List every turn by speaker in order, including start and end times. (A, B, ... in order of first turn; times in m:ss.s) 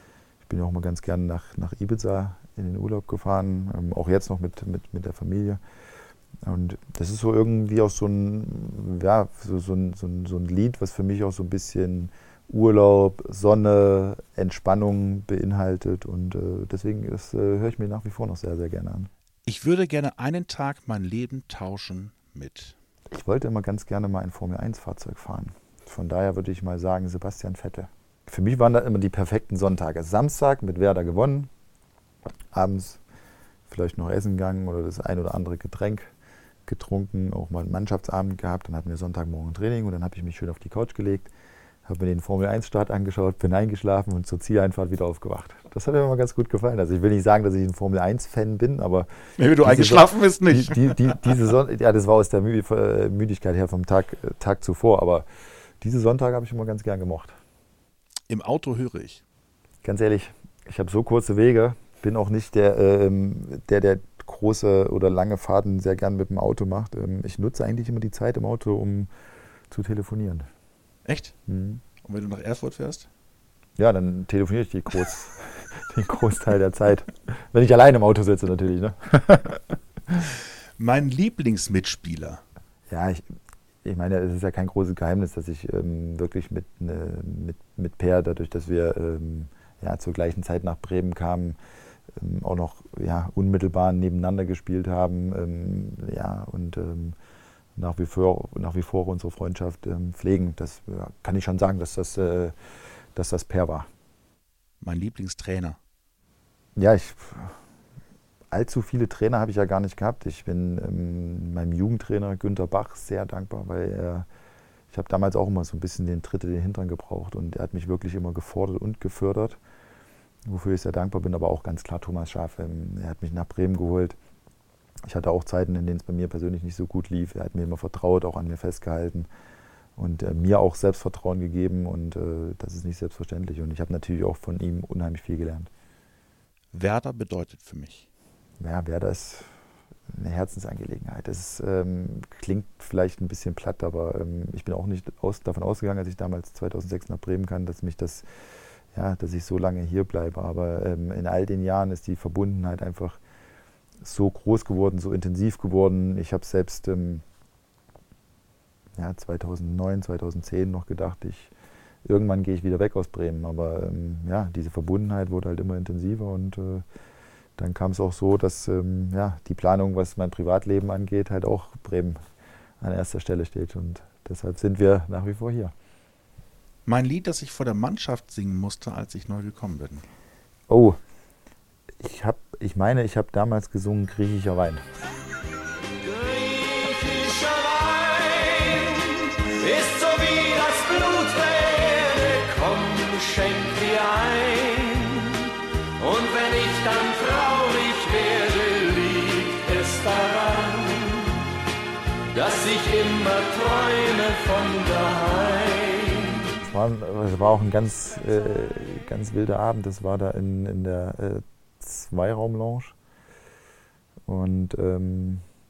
0:00.4-0:05.6 A
0:06.4-0:19.1 A
0:19.4-0:22.8 B
0:23.1-0:31.5 A
0:32.5-0:33.0 A
0:33.7-0:36.1 A
0:36.7-0:41.3 A
0:41.8-0:55.3 A
0:49.4-0:51.4 B
0:55.8-0:57.3 A
0:58.3-0:59.2 B
0:59.8-1:09.1 A
1:09.7-1:10.5 A
1:11.0-1:11.3 B
1:11.5-1:11.8 A
1:12.0-1:13.1 B
1:13.8-1:19.6 A
1:20.8-1:22.4 B
1:22.9-1:23.2 A
1:23.8-1:31.6 A
1:32.2-1:37.2 A
1:37.8-1:42.5 A
1:43.1-1:43.9 A
1:44.8-1:45.8 B
1:46.8-1:47.6 A
1:48.5-1:54.2 A
1:54.9-1:59.6 A
2:00.4-2:04.2 A
2:05.0-2:09.3 A
2:10.0-2:15.7 A
2:16.7-2:18.1 B
2:18.6-2:19.5 A
2:20.1-2:28.2 A
2:28.9-2:33.2 A
2:34.0-2:37.2 A
2:39.0-2:41.5 A
2:42.0-2:46.8 A
2:47.6-2:52.2 A
2:52.8-2:55.7 A
2:56.8-3:00.0 B
3:00.7-3:01.0 A
3:02.0-3:04.8 A
3:06.0-3:21.4 C
3:22.3-3:26.4 C
3:26.6-3:32.9 A
3:34.3-3:35.4 A